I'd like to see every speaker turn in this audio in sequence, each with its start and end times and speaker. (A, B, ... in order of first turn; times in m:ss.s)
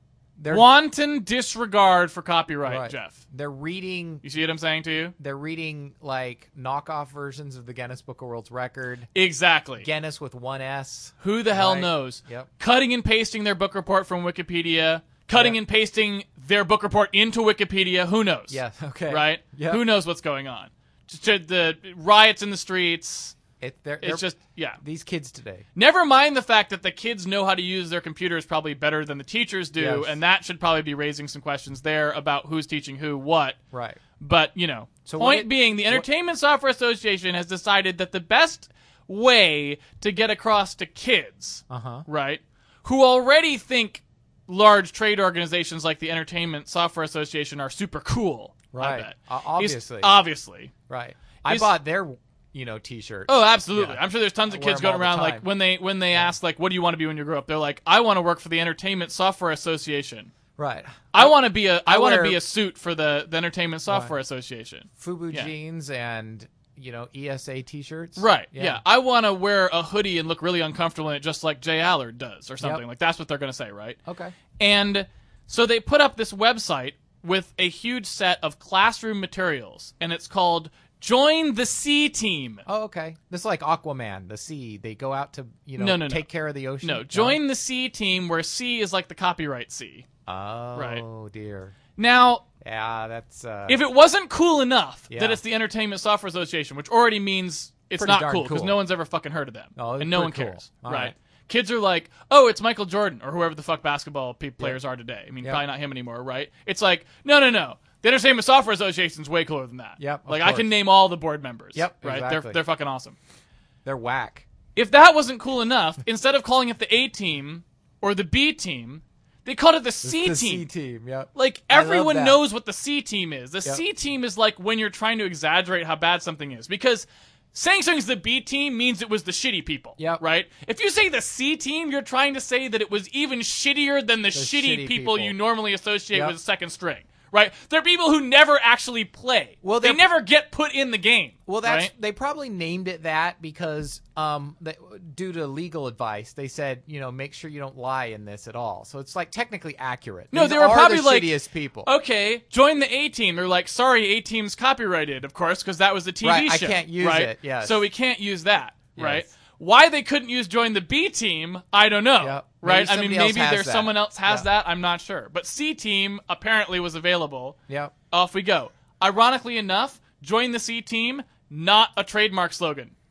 0:00.4-0:00.7 A
0:00.5-0:03.2 B
0:02.6-0:04.2 A
0:04.2-0:05.2 B
0:05.2-0:09.1 A
0:09.1-0:09.9 B
0:09.8-0:12.5 A
0:11.2-0:23.4 B
0:15.3-0:15.6 A
0:18.5-0:19.8 A
0:23.6-0:24.3 A
0:24.0-0:24.8 B
0:24.8-0:25.6 A
0:25.8-0:33.6 B
0:29.8-0:30.2 A
0:33.7-0:34.0 A
0:34.2-0:50.7 B
0:35.0-0:36.0 A
0:41.7-0:42.1 A
0:48.7-0:50.2 A
0:50.9-0:55.4 A
0:51.5-0:51.7 B
0:53.3-1:00.3 B
1:00.6-1:02.4 A
1:01.1-1:05.5 B
1:03.9-1:04.1 A
1:05.0-1:08.8 A
1:08.2-1:14.0 B
1:14.1-1:14.4 A
1:14.6-1:22.6 B
1:22.7-1:27.4 A
1:25.8-1:26.3 B
1:26.8-1:30.1 B
1:30.3-1:31.8 A
1:30.8-1:31.0 B
1:32.0-1:32.4 B
1:32.6-1:33.8 A
1:33.7-1:53.2 B
1:35.1-1:35.4 A
1:38.0-1:38.8 A
1:39.8-1:41.1 A
1:50.0-1:50.7 A
1:51.7-1:52.6 A
1:53.8-1:54.5 A
1:54.8-2:00.7 B
2:00.0-2:02.4 A
2:01.4-2:21.9 B
2:14.3-2:15.4 A
2:19.6-2:20.0 A
2:21.5-2:31.9 A
2:30.3-2:47.6 B
2:36.2-2:37.8 A
2:39.0-2:39.3 A
2:42.2-2:44.5 A
2:48.1-2:52.9 B